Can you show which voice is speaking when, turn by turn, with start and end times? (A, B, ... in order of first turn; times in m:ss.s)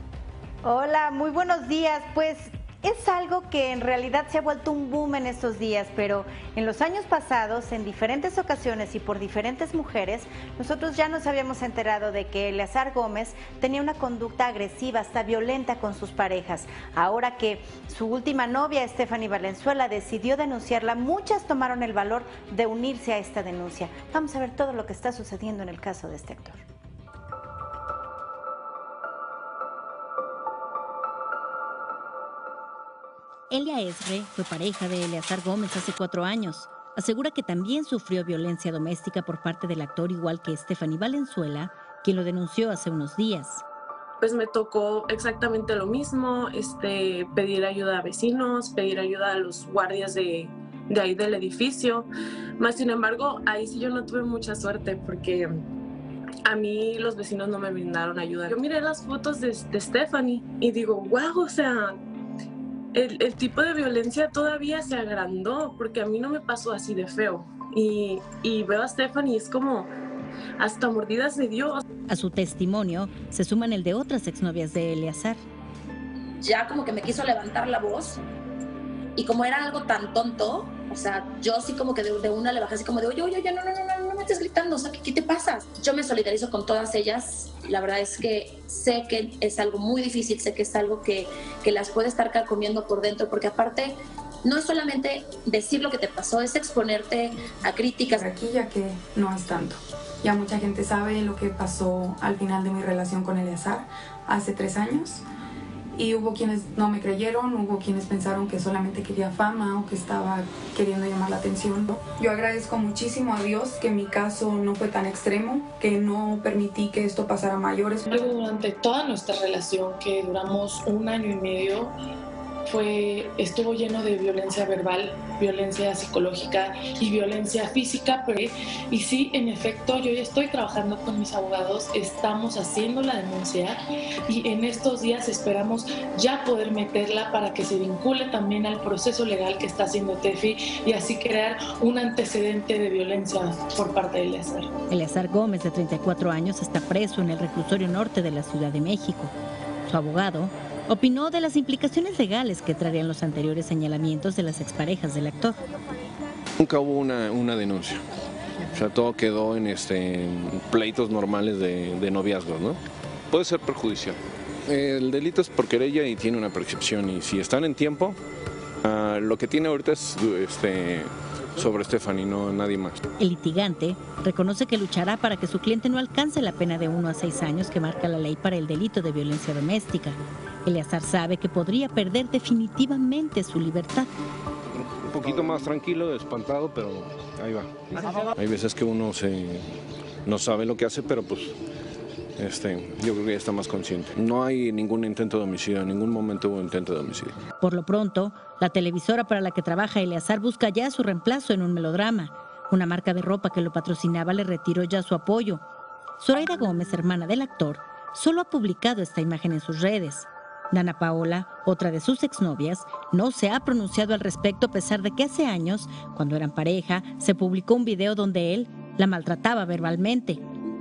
0:00.6-0:26.6 A
0:33.5-0:43.6 B
0:44.2-0:52.1 C
0:52.6-0:55.5 C
0:56.5-1:02.0 C
1:02.9-1:09.9 C
1:10.6-1:11.8 C
1:12.1-1:15.4 B
1:16.4-1:18.2 D
1:19.2-1:38.2 D
1:38.1-1:45.2 E
1:46.0-1:58.3 E
1:58.1-2:02.0 F
2:02.7-2:24.7 F
2:24.9-2:29.3 B
2:29.9-2:35.6 B
2:36.6-2:38.0 G
2:38.7-2:42.8 G
2:43.3-2:48.2 G
2:48.8-2:53.0 G
2:53.2-3:04.1 B
3:04.8-3:09.7 G
3:10.3-3:11.5 G
3:12.4-3:17.4 G
3:17.6-3:25.6 B
3:26.2-3:40.4 B